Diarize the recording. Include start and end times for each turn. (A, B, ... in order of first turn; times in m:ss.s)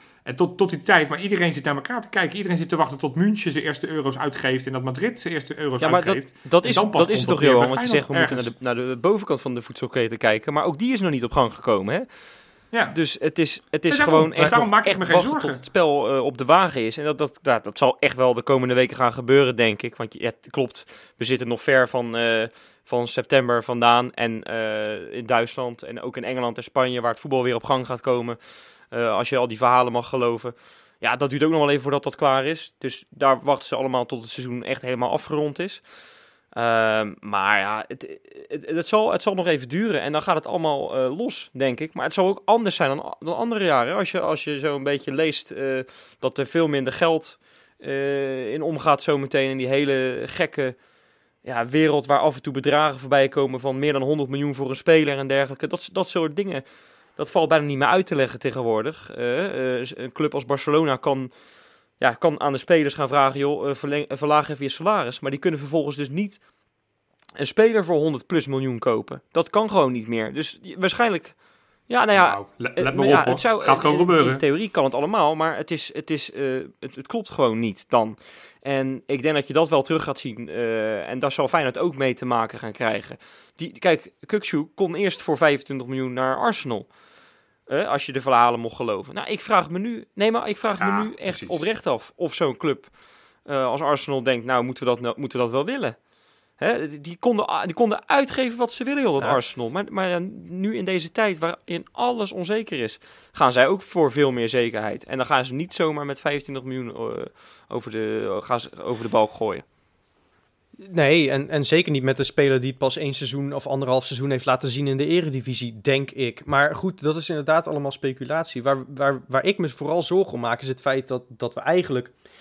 0:00.2-0:08.5 A
0:05.8-0:12.1 B
0:12.9-0:28.4 B
0:13.9-0:15.6 A
0:28.9-0:35.8 B
0:36.5-0:50.8 B
0:51.4-0:56.6 B
0:57.2-1:01.3 B
1:02.0-1:06.4 B
1:07.4-1:11.4 B
1:11.9-1:26.9 B
1:12.1-1:14.4 A
1:27.7-1:32.9 B
1:30.8-1:31.6 A
1:33.4-1:36.0 B
1:36.6-1:49.6 B
1:50.8-2:02.1 C